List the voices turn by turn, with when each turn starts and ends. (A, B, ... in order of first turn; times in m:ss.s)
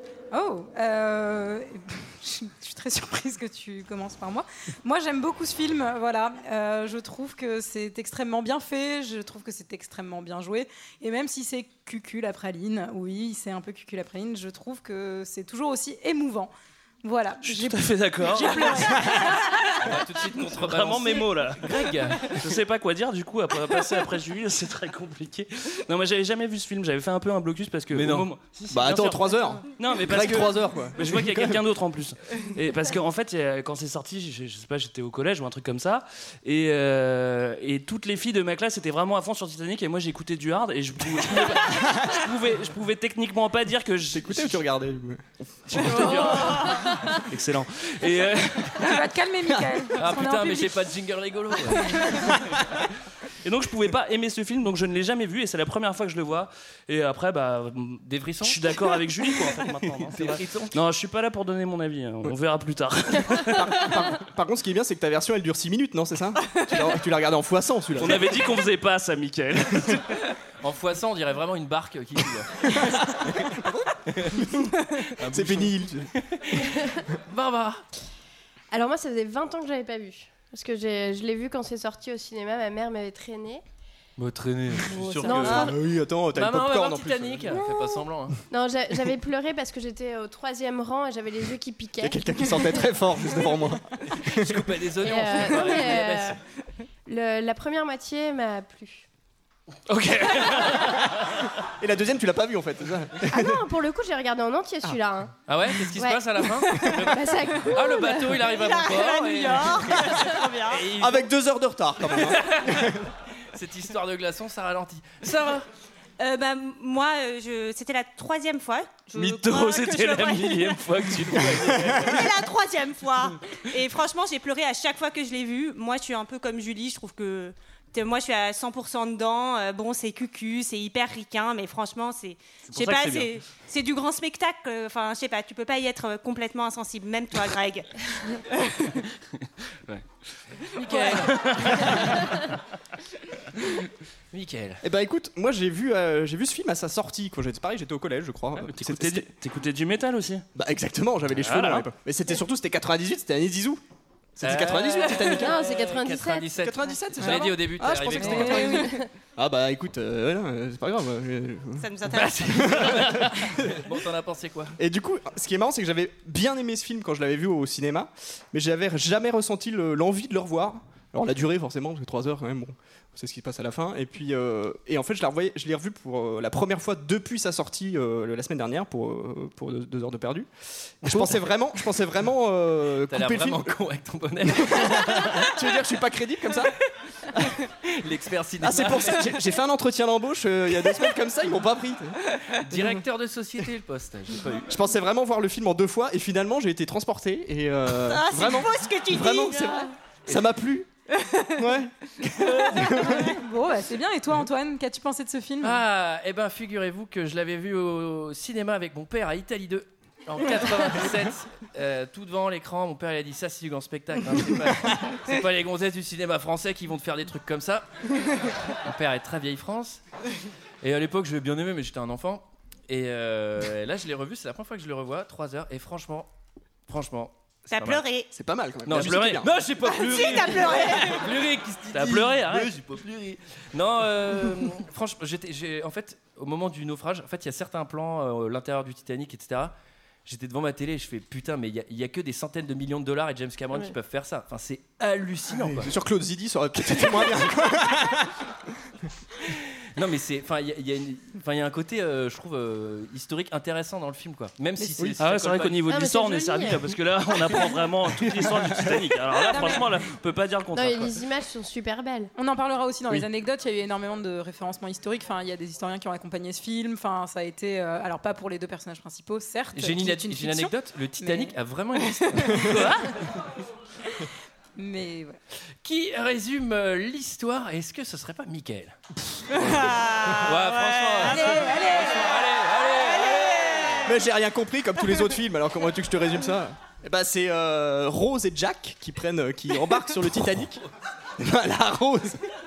0:00.3-0:16.5 A
0:17.0-0:19.7 A
0:17.4-0:19.5 B
0:19.8-0:22.4 C
0:20.6-0:44.6 B
0:27.9-0:28.3 C
0:28.7-0:31.6 D
0:41.7-0:42.1 D
0:44.1-0:46.2 D
0:45.7-0:48.6 B
0:45.9-0:46.8 C
0:48.0-0:48.8 C
0:48.8-0:50.8 A
0:49.9-0:52.4 C
0:51.7-0:52.3 A
0:53.4-1:03.8 B
0:58.0-0:58.6 C
1:00.1-1:00.7 C
1:03.5-1:08.5 D
1:08.0-1:10.0 B
1:10.6-1:13.4 C
1:12.8-1:14.7 D
1:14.1-1:14.5 C
1:15.1-1:16.8 C
1:15.3-1:16.1 D
1:17.3-1:17.8 C
1:18.7-1:23.6 E
1:24.2-1:25.7 C
1:25.2-1:27.6 D
1:25.2-1:25.7 E
1:26.3-1:28.4 C
1:27.5-1:33.4 E
1:32.0-1:34.6 D
1:34.1-1:36.4 C
1:35.0-1:36.4 E
1:37.0-1:39.1 E
1:39.9-1:41.1 B
1:40.3-1:40.8 C
1:41.8-1:43.6 D
1:43.3-1:45.3 E
1:45.5-1:51.3 C
1:45.9-1:48.4 E
1:48.4-1:50.8 F
1:51.0-1:53.0 D
1:52.1-1:52.9 C
1:53.5-1:55.7 C
1:56.2-2:00.8 F
1:59.1-2:02.3 C
2:01.5-2:02.0 D
2:02.0-2:18.9 F
2:12.7-2:13.2 C
2:20.7-2:22.4 C
2:20.9-2:22.1 B
2:24.3-2:24.8 C
2:24.8-2:29.3 D
2:28.6-2:30.4 B
2:30.5-2:33.8 D
2:31.4-2:31.8 B
2:34.4-2:35.6 D
2:34.4-2:38.9 C
2:35.1-2:36.5 E
2:36.6-2:41.9 D
2:37.2-2:37.5 A
2:38.2-2:38.9 A
2:38.7-2:39.0 E
2:41.8-2:42.6 F
2:42.1-2:44.8 C
2:42.4-2:43.7 D
2:44.8-3:00.5 D
3:01.0-3:03.7 D
3:01.1-3:01.4 C
3:03.1-3:05.6 C
3:04.4-3:06.7 D
3:07.8-3:09.3 C
3:08.6-3:12.2 D
3:12.5-3:14.7 C
3:12.7-3:13.0 D
3:14.7-3:20.9 D
3:18.0-3:19.9 F
3:21.1-3:21.6 F
3:21.5-3:23.4 D
3:23.0-3:25.8 A
3:25.6-3:37.9 C
3:38.8-3:40.0 C
3:40.8-3:46.3 C
3:46.9-3:48.0 C
3:47.7-3:48.3 F
3:48.3-3:49.6 D
3:48.9-3:59.7 C
3:49.8-3:51.2 F
3:51.9-3:52.8 B
4:00.2-4:05.9 C
4:05.5-4:08.3 D
4:10.0-4:15.8 C
4:15.2-4:21.2 B
4:15.8-4:16.9 E
4:18.4-4:19.0 D
4:19.5-4:19.9 A
4:20.7-4:22.3 E
4:22.4-4:31.5 A
4:29.7-4:33.4 C
4:32.2-4:32.7 A
4:34.8-4:35.4 A
4:35.8-4:44.0 C
4:39.5-4:44.1 F
4:41.2-4:42.1 A
4:44.0-4:50.8 D
4:51.4-4:52.4 D